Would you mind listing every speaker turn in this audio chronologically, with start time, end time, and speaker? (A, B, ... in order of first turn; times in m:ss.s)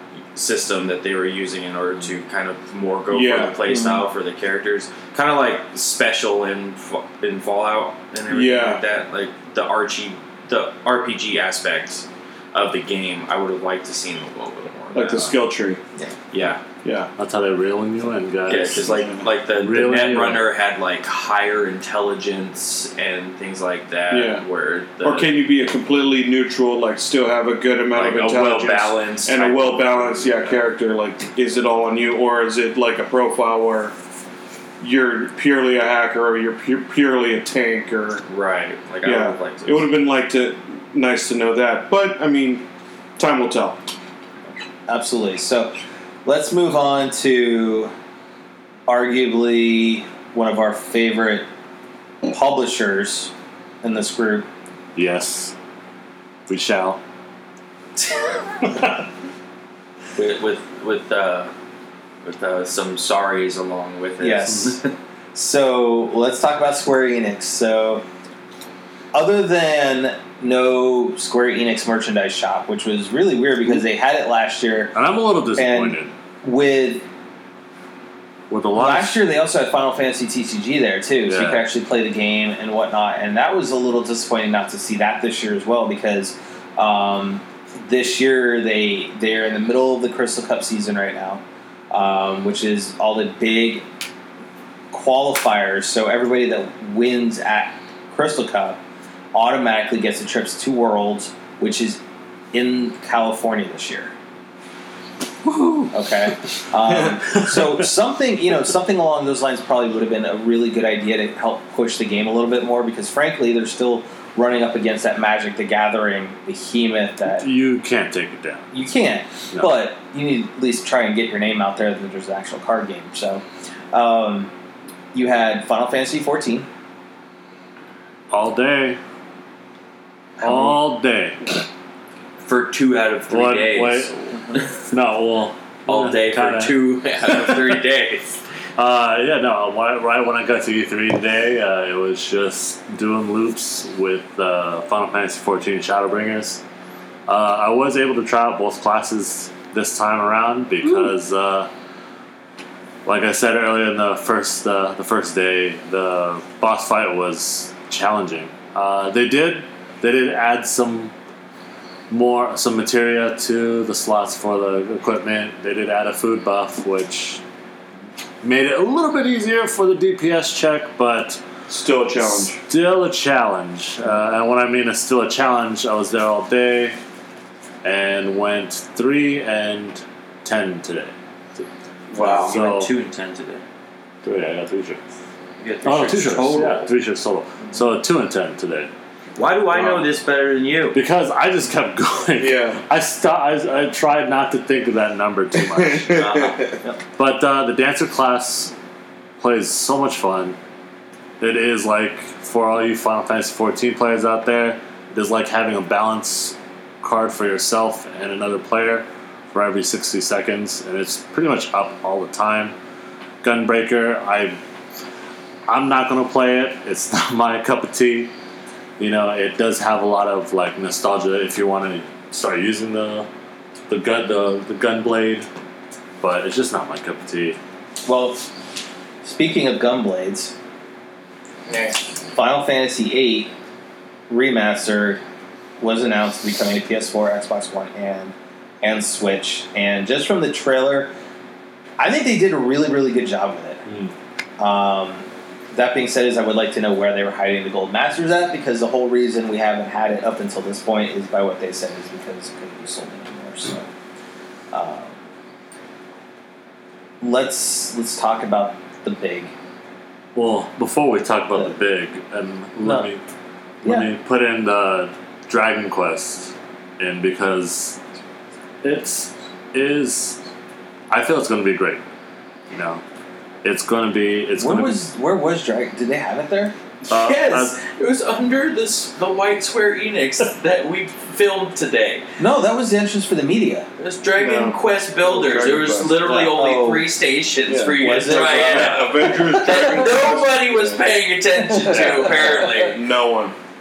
0:00.3-0:15.4 A
0:03.1-0:03.6 B
0:03.7-0:04.0 C
0:08.3-0:08.8 B
0:14.9-0:15.8 B
0:16.3-0:16.6 A
0:16.8-0:17.1 B
0:17.2-0:20.5 D
0:18.5-0:25.3 A
0:18.9-0:19.2 B
0:24.1-0:24.4 B
0:25.0-0:33.9 B
0:27.9-0:30.7 A
0:34.8-0:38.2 B
0:38.3-0:39.9 A
0:39.0-0:42.6 B
0:43.2-0:43.8 B
0:44.9-0:45.7 C
0:46.2-0:47.9 C
0:48.9-0:51.4 C
0:52.3-0:53.3 C
0:53.8-0:54.4 C
0:54.9-0:55.5 D
0:56.5-0:57.0 D
0:58.0-0:58.6 C
1:00.2-1:01.5 A
1:02.2-1:04.9 A
1:04.2-1:04.8 C
1:05.3-1:08.0 C
1:09.1-1:14.9 C
1:14.9-1:16.1 D
1:15.6-1:17.0 C
1:18.5-1:19.2 D
1:18.8-1:33.8 C
1:21.3-1:21.6 D
1:34.9-1:38.8 C
1:39.3-1:42.0 C
1:42.5-1:44.1 C
1:45.5-1:45.9 D
1:45.9-1:57.4 C
1:57.4-1:58.7 D
1:58.7-2:04.5 C
2:05.1-2:06.7 C
2:08.3-2:09.0 D
2:10.4-2:10.8 C
2:10.4-2:11.4 D
2:12.4-2:14.1 A
2:13.3-2:16.7 D
2:15.9-2:18.3 A
2:17.3-2:17.6 D
2:18.8-2:26.6 D
2:27.3-2:31.7 D
2:33.0-2:41.1 D
2:42.1-2:47.4 D
2:48.4-2:51.4 D
2:51.7-2:52.6 B
2:52.3-2:57.0 D
2:57.8-3:01.6 D
3:02.1-3:02.6 B
3:02.2-3:03.6 A
3:02.4-3:02.9 D
3:04.2-3:05.0 D
3:05.6-3:06.9 A
3:05.8-3:08.9 D
3:09.4-3:11.0 A
3:09.7-3:10.0 B
3:10.9-3:16.3 D
3:12.4-3:12.8 B
3:15.6-3:16.8 B
3:16.1-3:16.9 A
3:17.2-3:18.7 D
3:19.4-3:20.6 D
3:21.4-3:32.7 D
3:33.4-3:34.6 D
3:35.7-3:38.3 D
3:39.0-3:43.3 D
3:43.9-3:45.5 D
3:46.2-3:47.6 D
3:48.0-3:48.4 C
3:49.2-3:50.5 C
3:52.3-3:53.5 C
3:54.3-3:55.2 C
3:55.8-4:01.1 C
4:02.0-4:03.8 C
4:03.8-4:04.1 D
4:04.6-4:13.9 C
4:14.7-4:15.1 C
4:17.2-4:19.5 C
4:20.3-4:23.2 D
4:22.8-4:23.1 C
4:23.8-4:28.0 D
4:28.8-4:30.4 D
4:31.1-4:32.0 D
4:32.7-4:33.0 D
4:33.6-4:35.0 D
4:34.6-4:36.7 C
4:37.1-4:42.2 A
4:37.1-4:37.8 D
4:42.4-4:43.9 C
4:44.0-4:53.0 A
4:44.4-4:46.2 B
4:46.2-4:47.1 C
4:47.7-4:51.0 B
4:47.9-4:49.9 C
4:51.6-4:52.7 C
4:51.9-4:52.4 D
4:52.8-4:53.5 B